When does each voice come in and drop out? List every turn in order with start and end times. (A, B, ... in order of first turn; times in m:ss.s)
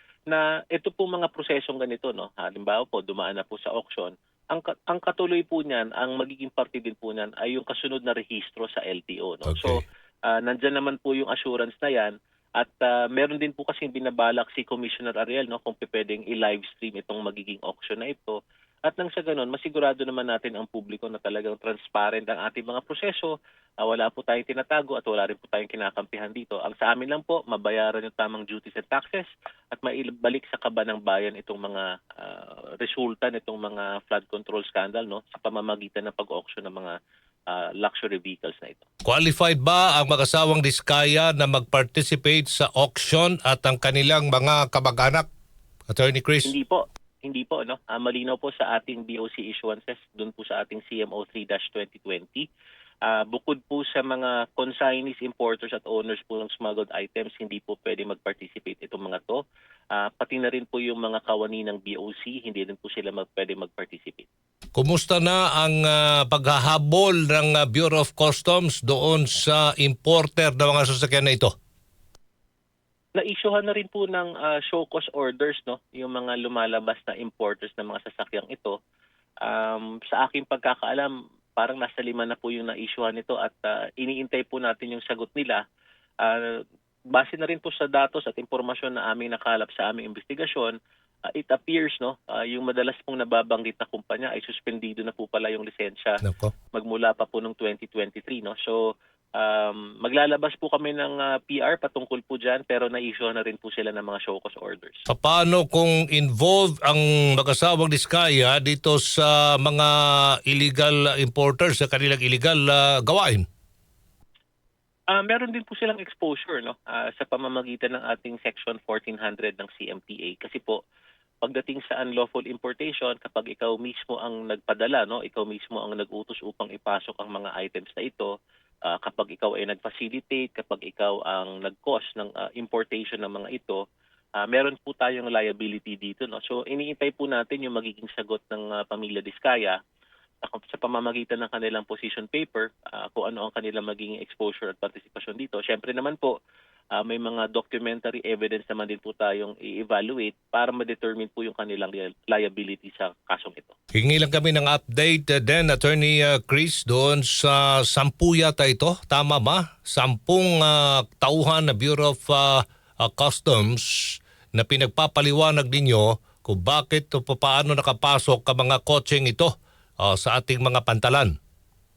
0:00.3-0:37.0 A
0:37.5-0:38.8 A
0:39.1-0:45.3 B
0:45.9-0:46.6 B
0:46.5-0:52.5 A
0:53.0-1:04.3 A
1:04.8-1:11.5 B
1:13.2-1:18.8 A
1:19.4-1:25.6 A
1:26.2-1:30.8 A
1:31.3-1:45.1 A
1:36.2-1:36.5 B
1:45.1-1:49.9 B
1:50.5-1:53.5 B
1:55.1-2:00.8 A
2:01.4-2:08.3 A
2:08.9-2:13.8 A
2:14.4-2:19.8 A
2:20.4-2:26.4 A
2:26.9-2:33.7 A
2:34.0-2:51.3 B